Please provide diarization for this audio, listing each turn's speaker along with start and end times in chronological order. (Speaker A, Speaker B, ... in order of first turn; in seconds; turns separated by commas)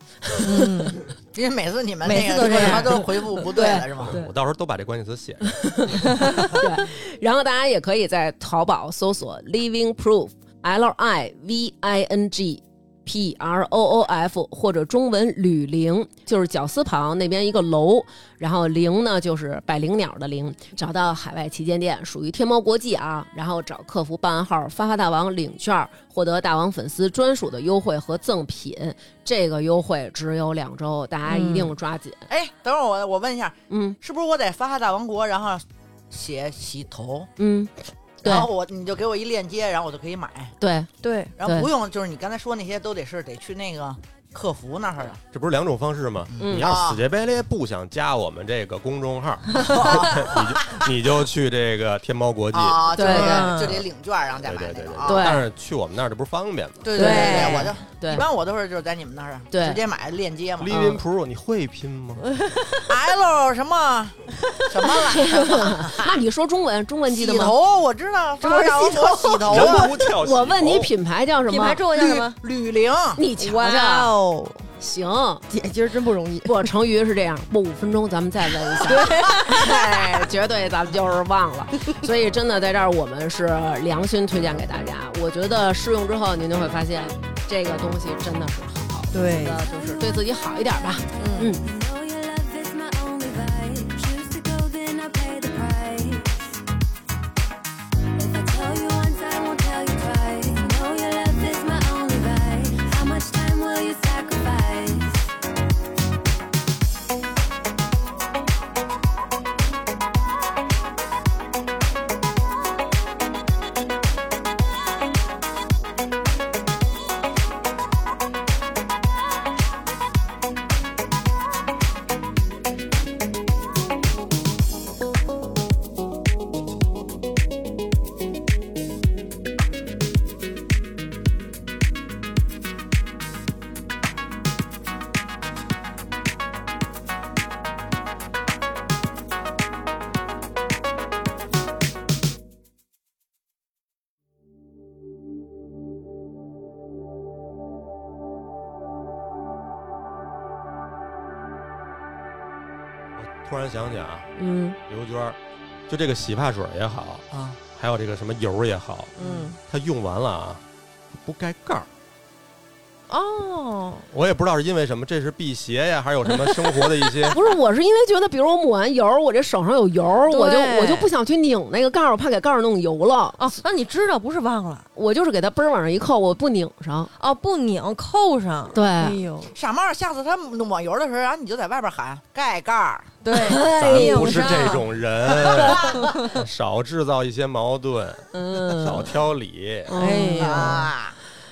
Speaker A: 0.3-0.9, Speaker B: 0.4-1.0, Speaker C: 1.3-4.2, Speaker B: 2.0-3.4, Speaker A: 3.5-4.3, Speaker D: 4.0-5.9, Speaker A: 5.6-32.3, Speaker B: 6.2-6.6, Speaker B: 31.3-31.7, Speaker C: 32.3-37.3, Speaker A: 33.7-34.0, Speaker A: 37.4-38.5, Speaker C: 38.2-40.5, Speaker A: 40.6-40.9, Speaker B: 41.0-41.3, Speaker C: 41.4-45.2, Speaker A: 41.4-41.7, Speaker D: 45.3-53.3, Speaker C: 46.3-47.0, Speaker A: 46.4-46.7, Speaker C: 49.6-50.9, Speaker C: 52.5-55.3, Speaker A: 52.9-53.7, Speaker B: 53.0-53.8, Speaker D: 54.4-57.0, Speaker A: 55.0-55.5, Speaker C: 56.8-60.8, Speaker B: 56.9-57.8, Speaker A: 56.9-58.2, Speaker A: 59.5-59.8, Speaker D: 60.6-62.3, Speaker A: 60.7-61.0, Speaker B: 62.3-62.9, Speaker C: 62.9-66.2, Speaker A: 65.1-67.5, Speaker C: 67.1-69.9, Speaker B: 68.4-69.7, Speaker D: 69.5-70.9, Speaker A: 69.6-71.8, Speaker B: 71.5-72.4, Speaker C: 71.9-73.2, Speaker A: 73.2-74.1, Speaker B: 73.4-74.6, Speaker A: 74.8-75.4, Speaker B: 75.5-76.7, Speaker A: 76.4-91.6, Speaker B: 78.8-79.7, Speaker C: 79.4-80.3, Speaker B: 89.1-89.6, Speaker E: 89.5-96.4, Speaker B: 91.2-91.5, Speaker E: 98.2-105.3, Speaker D: 153.2-154.3, Speaker B: 154.4-154.8, Speaker D: 154.9-161.9, Speaker C: 157.3-157.6, Speaker B: 159.2-159.6, Speaker C: 159.2-159.4, Speaker B: 163.1-164.1, Speaker D: 164.1-167.4, Speaker B: 166.3-167.1, Speaker A: 167.3-173.4, Speaker B: 170.3-171.1, Speaker B: 173.4-174.8, Speaker A: 174.9-177.1, Speaker B: 177.2-179.5, Speaker A: 178.7-179.2, Speaker C: 179.5-183.2, Speaker B: 183.2-184.8, Speaker A: 183.3-184.8, Speaker D: 183.7-190.0, Speaker C: 185.3-186.0, Speaker A: 188.3-189.0, Speaker B: 188.6-189.0, Speaker A: 189.9-190.9, Speaker B: 189.9-190.9, Speaker C: 190.4-191.2